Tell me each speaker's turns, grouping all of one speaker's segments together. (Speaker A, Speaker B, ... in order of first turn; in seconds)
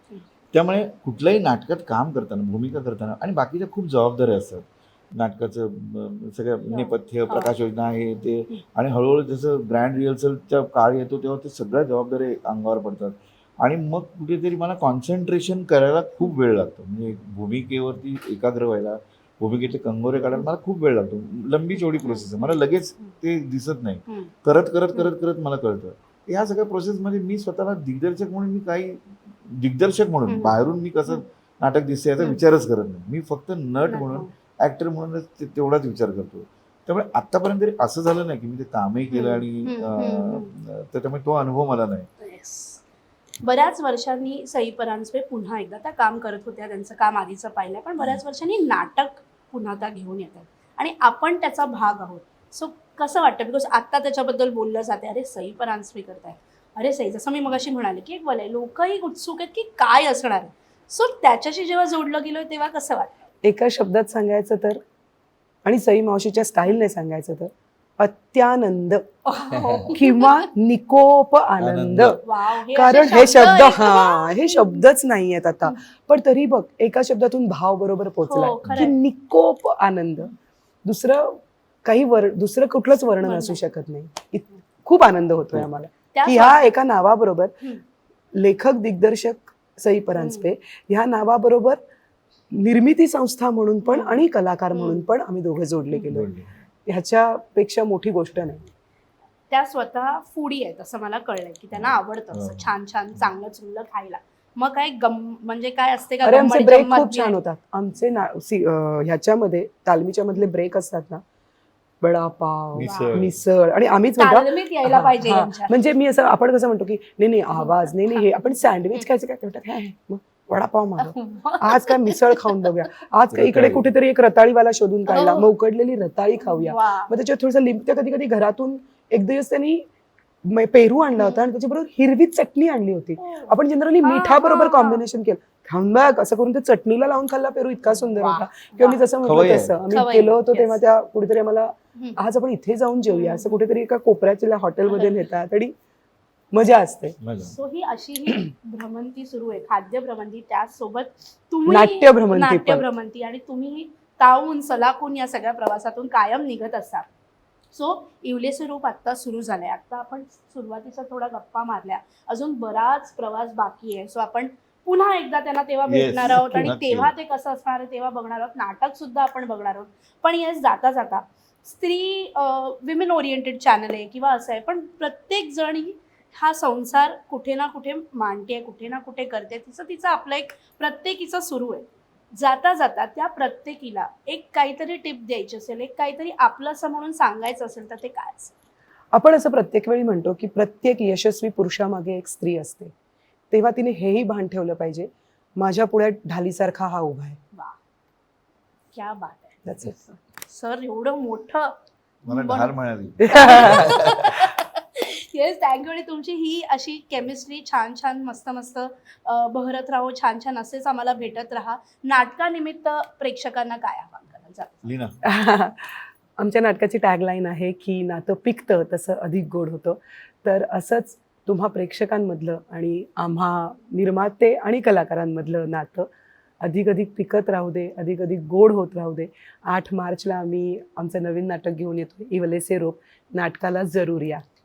Speaker A: 0.5-42.1, 69.5-69.9, 71.6-72.2, 78.6-78.9, 96.1-96.5, 101.7-103.3, 112.7-113.3, 123.3-123.9, 139.2-139.7, 147.2-147.5, 165.9-167.1, 202.2-204.5, 214.8-215.2
Speaker B: 6.7-7.5, 22.0-23.1, 30.3-30.5, 33.9-34.3, 39.1-40.5, 42.2-42.8, 43.4-63.1, 69.2-70.5, 72.2-74.8, 78.2-78.9, 83.2-83.7, 86.1-86.7, 90.2-90.5, 93.8-95.1, 99.5-107.4, 112.8-113.3, 114.2-115.7, 117.6-118.2, 121.0-122.5, 125.1-125.5, 126.4-127.1, 131.2-131.5, 133.2-135.0, 137.9-140.8, 143.1-143.6, 144.9-145.2, 147.4-157.1, 157.7-188.5, 198.9-201.8, 202.3-202.7, 203.3-214.9
Speaker C: 63.4-64.8, 65.6-69.0, 69.9-80.3, 80.8-87.5, 88.3-91.8, 92.5-96.3, 96.9-98.7, 106.2-111.2, 112.0-129.8, 130.5-145.7, 146.5-147.2, 151.7-152.8, 166.3-166.7, 189.1-192.9, 193.5-197.4, 199.7-200.1, 203.2-203.9, 215.2-226.1, 226.6-234.4